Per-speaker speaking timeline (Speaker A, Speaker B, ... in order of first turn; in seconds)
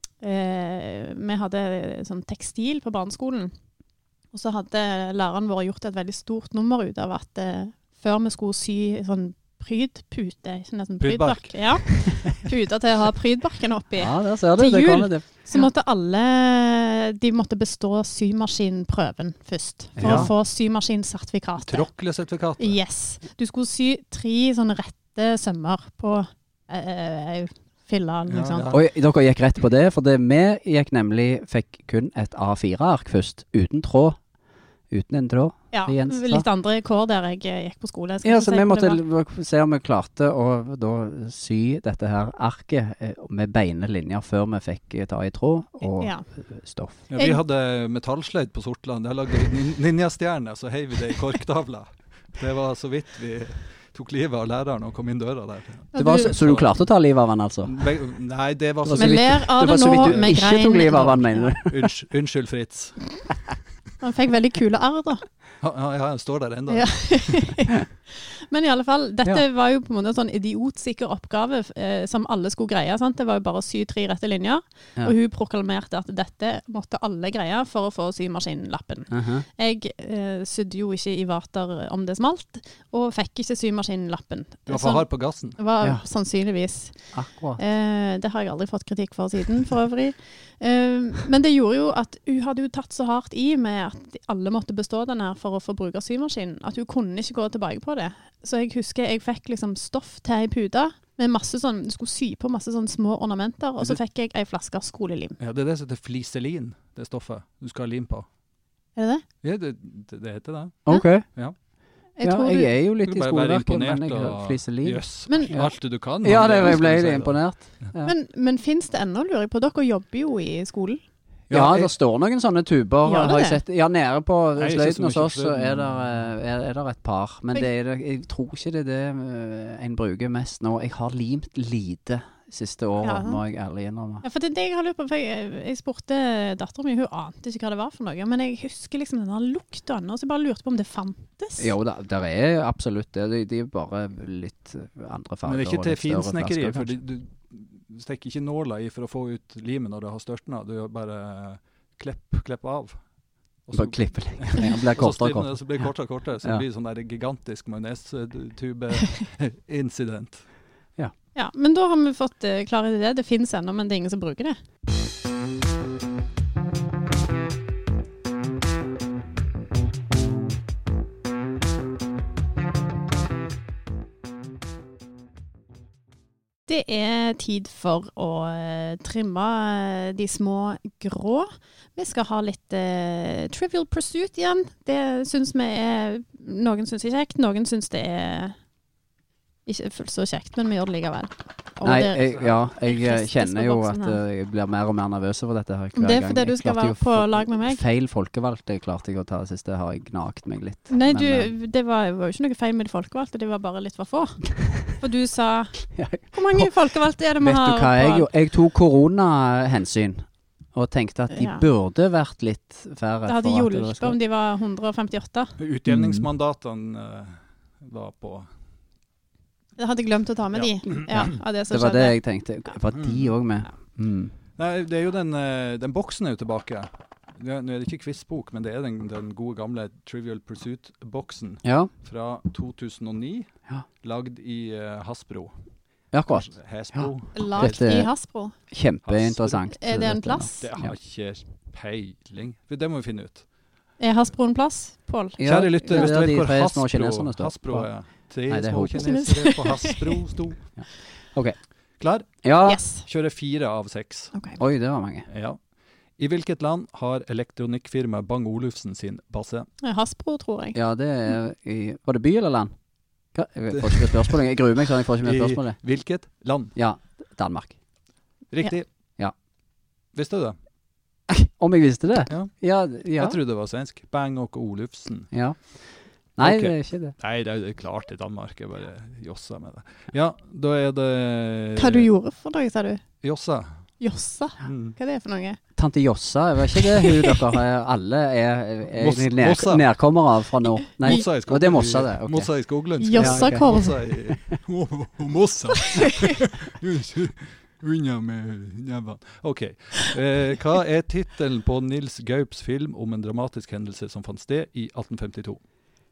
Speaker A: 0.2-3.5, 4.3-21.9, 22.6-28.7, 35.7-39.0, 46.0-46.2, 55.9-56.4, 58.9-61.5, 64.0-65.2, 66.7-105.4, 109.0-109.2, 112.2-112.7, 115.3-115.5, 118.0-121.0, 123.0-123.6, 133.0-133.4, 134.2-141.7, 161.3-164.6, 176.7-188.6, 189.7-194.2, 195.9-197.8, 200.9-204.4, 204.9-208.3, 211.3-211.6, 213.2-215.5, 219.8-222.2, 237.3-238.5, 239.8-240.6, 244.0-246.1, 248.9-250.2, 252.7-253.0, 254.3-254.6, 259.8-260.8, 281.8-283.0, 284.0-285.6, 286.8-287.4, 293.0-294.0
Speaker B: 11.0-12.3, 20.0-20.3, 21.6-22.8, 28.3-28.8, 47.1-56.8, 57.6-60.3, 61.6-63.0, 65.6-67.4, 84.7-85.6, 105.4-108.2, 109.4-111.5, 113.0-117.4, 121.5-121.9, 124.6-126.0, 145.4-153.0, 153.7-160.4, 192.2-192.6, 215.6-218.5, 220.6-221.3, 222.9-223.3, 224.6-233.5, 234.0-235.5, 236.3-237.8, 239.0-239.7, 240.6-243.4, 245.4-250.6, 252.0-252.4, 252.9-254.3, 255.3-255.6, 256.2-259.7, 263.8-264.3, 265.2-266.7, 268.5-268.9, 270.1-270.6, 273.2-275.3, 276.4-282.1, 283.2-283.7, 284.6-284.9, 288.9-289.9, 291.0-305.6
Speaker C: 14.0-15.3, 20.0-20.3, 28.7-34.2, 34.9-36.5, 38.2-47.0, 55.9-57.7, 58.8-61.9, 79.1-79.4, 87.1-87.6, 110.8-111.2, 112.2-115.7, 116.2-118.1, 121.5-134.2, 141.6-146.9, 153.7-155.8, 191.8-201.5, 205.9-206.7, 207.4-214.2, 215.9-216.3, 221.1-224.3, 231.6-231.9, 236.1-238.1, 238.7-240.9, 245.4-247.9, 248.5-249.1, 250.8-251.6, 252.4-252.8, 254.6-255.2, 260.7-262.7, 263.3-265.8, 266.8-267.8, 271.3-273.4, 275.3-275.6, 276.4-277.1, 285.8-292.5, 293.1-293.7